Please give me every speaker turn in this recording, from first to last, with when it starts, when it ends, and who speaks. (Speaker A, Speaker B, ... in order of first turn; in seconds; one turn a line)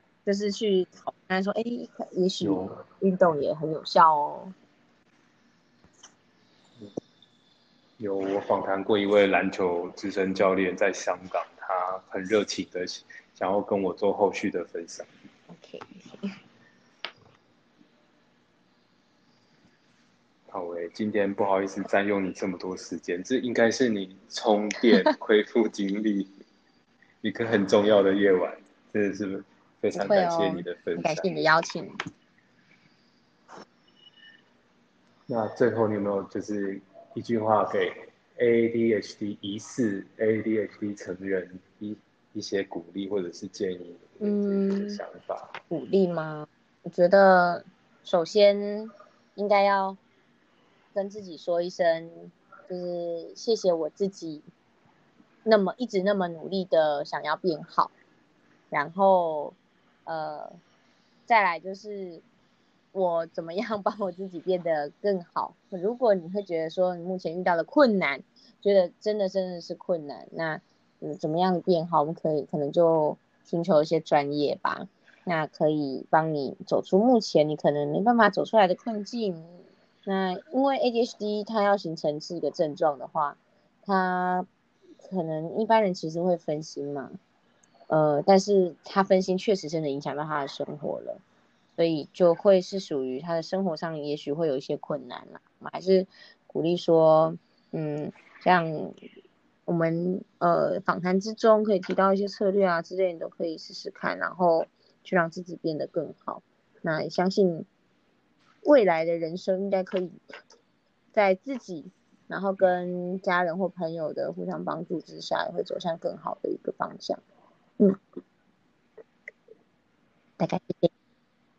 Speaker A: 0.2-4.5
Speaker B: 2.4-2.8
Speaker B: 8.0-15.1
Speaker A: 15.5-16.3
Speaker B: 20.5-26.3
Speaker B: 27.2-31.4
Speaker A: 29.9-32.0
Speaker B: 35.3-45.5
Speaker A: 44.2-45.0
Speaker A: 45.7-50.0
Speaker A: 50.9-54.5
Speaker A: 55.5-57.9
Speaker A: 58.7-60.6
Speaker A: 61.3-62.2
Speaker A: 62.9-84.5
Speaker A: 85.0-87.2
Speaker A: 87.9-91.2
Speaker A: 91.8-99.0
Speaker A: 99.7-107.7
Speaker A: 108.6-110.2
Speaker A: 111.1-117.2
Speaker A: 120.4-120.9